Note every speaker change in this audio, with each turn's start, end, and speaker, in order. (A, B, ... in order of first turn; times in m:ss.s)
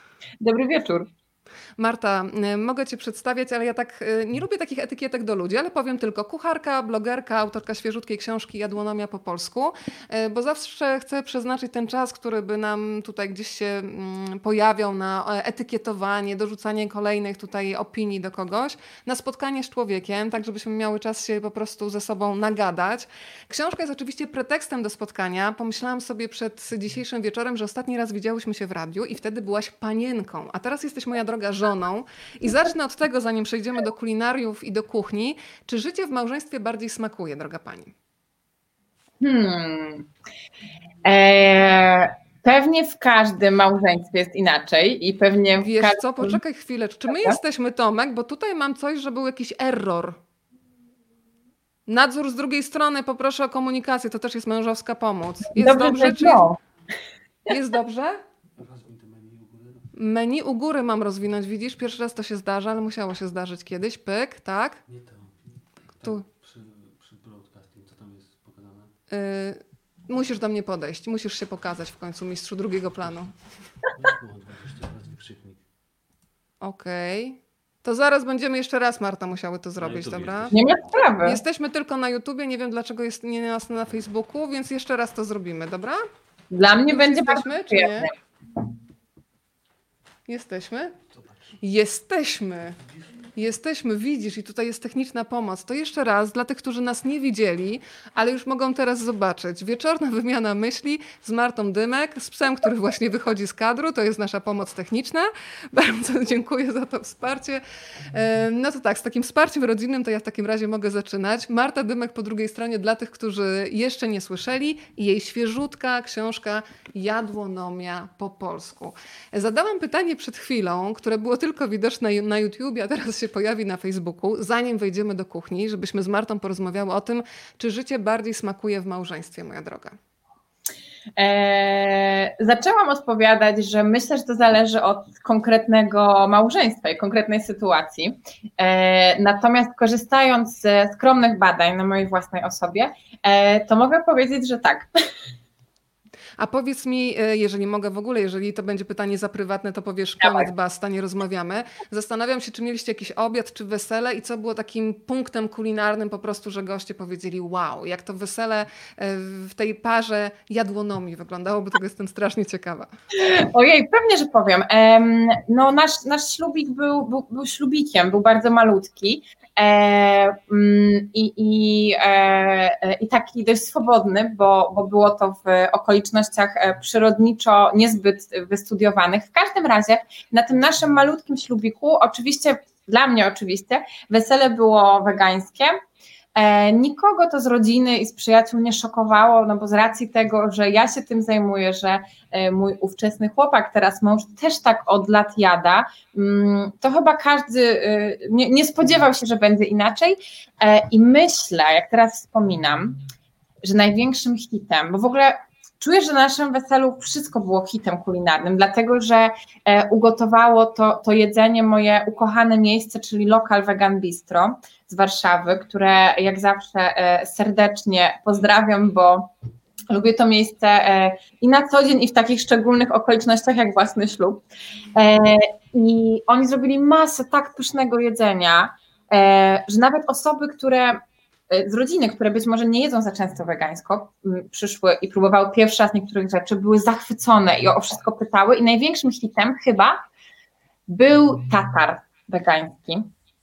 0:00.4-0:01.1 A
0:01.8-0:37.9 B
0:39.2-0:40.1 A
0:41.0-0:46.4 A
0:45.6-0:50.2 B
0:47.1-0:47.4 A
0:51.9-0:56.4 B
0:55.6-0:56.6 A
0:57.5-0:58.2 B
0:58.6-0:59.9 C
0:59.9-1:04.8 B
1:04.9-1:08.9 C
1:09.1-1:13.5 B
1:13.8-1:15.6 C
1:16.6-1:20.6 B
1:19.8-1:20.8 C
1:20.5-1:21.4 A
1:21.2-1:26.0 B
1:26.5-1:28.1 A
1:26.9-1:28.1 B
1:30.3-1:31.0 B
1:31.6-1:32.8 B
1:33.4-2:10.0 B
2:11.2-2:24.9 A
2:26.4-2:42.9 B
2:30.2-2:30.5 A
2:43.2-3:05.7 A
3:06.3-3:23.0 A
3:23.6-3:39.3 A
3:39.9-3:44.4 A
3:44.9-4:00.0 A
4:00.9-4:03.1 A